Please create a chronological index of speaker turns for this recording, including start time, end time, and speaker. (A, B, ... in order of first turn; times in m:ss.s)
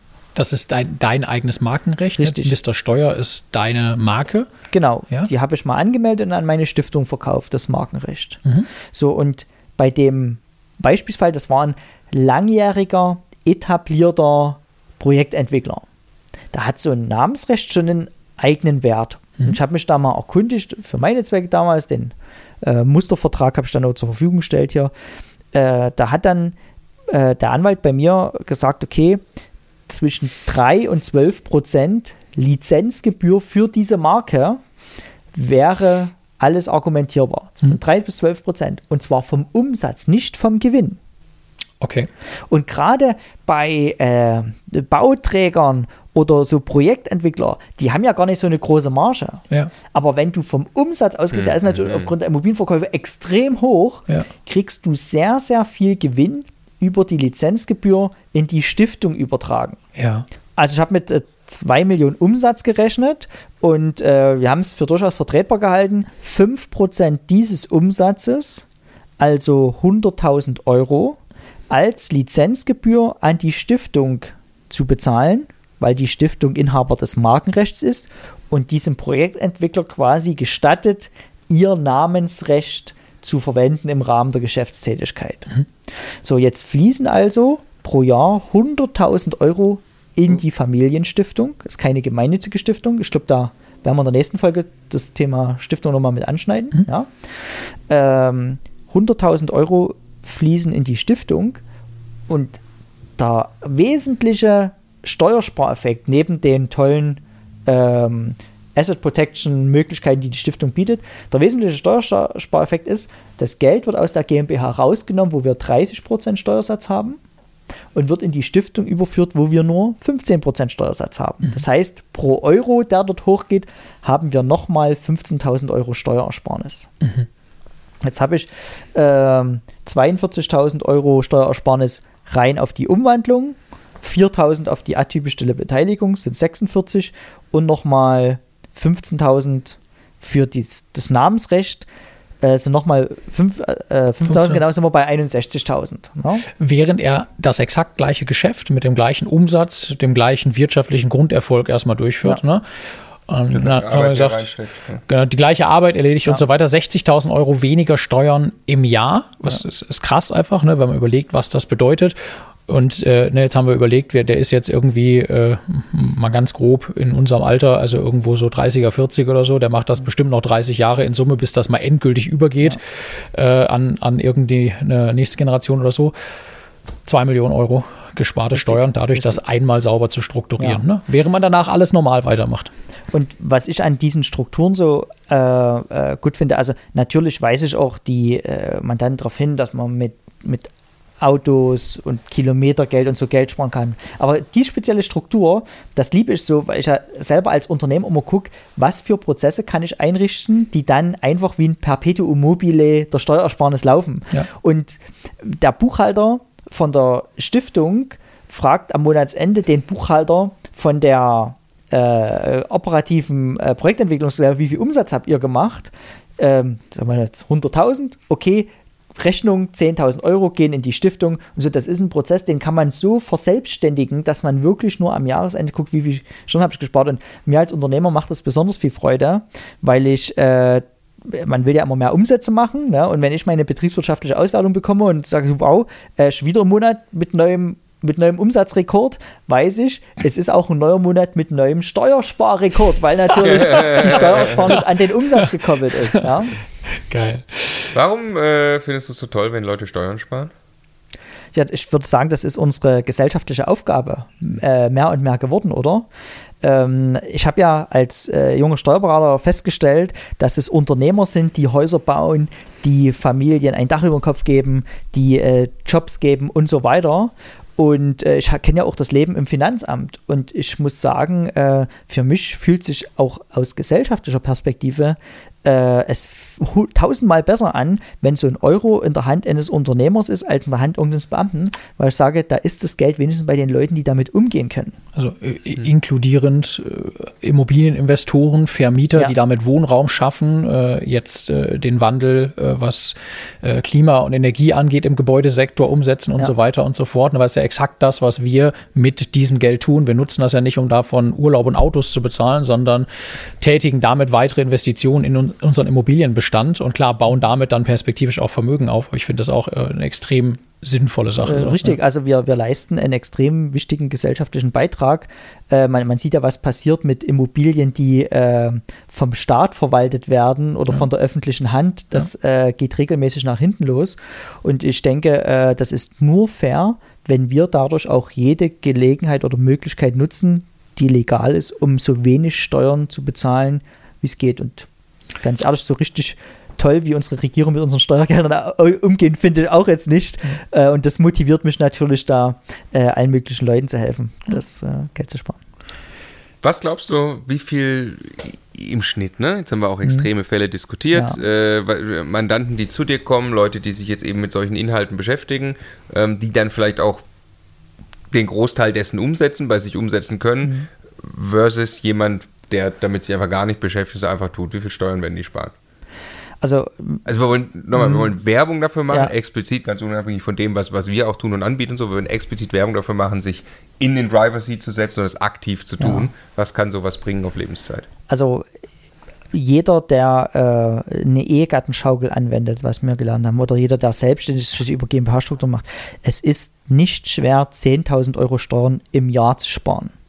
0:00.4-0:04.5 A
0:02.2-0:02.6 B
0:04.7-0:15.8 B
0:16.5-0:24.9 B
0:25.5-0:26.6 B
0:27.1-0:29.2 B
0:29.9-0:34.6 B
0:35.3-0:41.0 B
0:41.8-0:42.1 A
0:42.5-0:59.8 B
0:51.4-0:52.1 C
1:00.0-1:00.3 A
1:00.6-1:08.6 B
1:09.2-1:11.2 B
1:11.7-1:25.5 B
1:26.2-1:41.6 B
1:42.3-1:42.6 B
1:43.2-1:57.2 B
1:57.9-2:06.9 B
2:07.0-2:07.3 A
2:08.0-2:21.9 B
2:22.4-2:26.5 B
2:24.3-2:24.6 A
2:26.6-2:32.7 A
2:33.3-2:34.5 A
2:33.5-2:35.0 C
2:35.1-2:56.1 A
2:57.0-3:02.7 A
2:58.5-2:59.4 B
3:03.1-4:06.6 B
4:03.4-4:04.6 C
4:07.1-4:07.9 A
4:07.9-4:10.5 C
4:11.5-4:16.1 B
4:16.6-4:45.0 B
4:45.2-5:03.1 A
5:03.6-5:12.0 A
5:11.4-5:34.9 B
5:35.4-5:45.6 B
5:46.6-5:57.2 C
5:58.3-6:05.7 C
6:06.6-6:07.2 B
6:07.2-6:18.1 C
6:16.0-6:16.3 B
6:18.3-6:18.7 B
6:19.5-6:30.1 B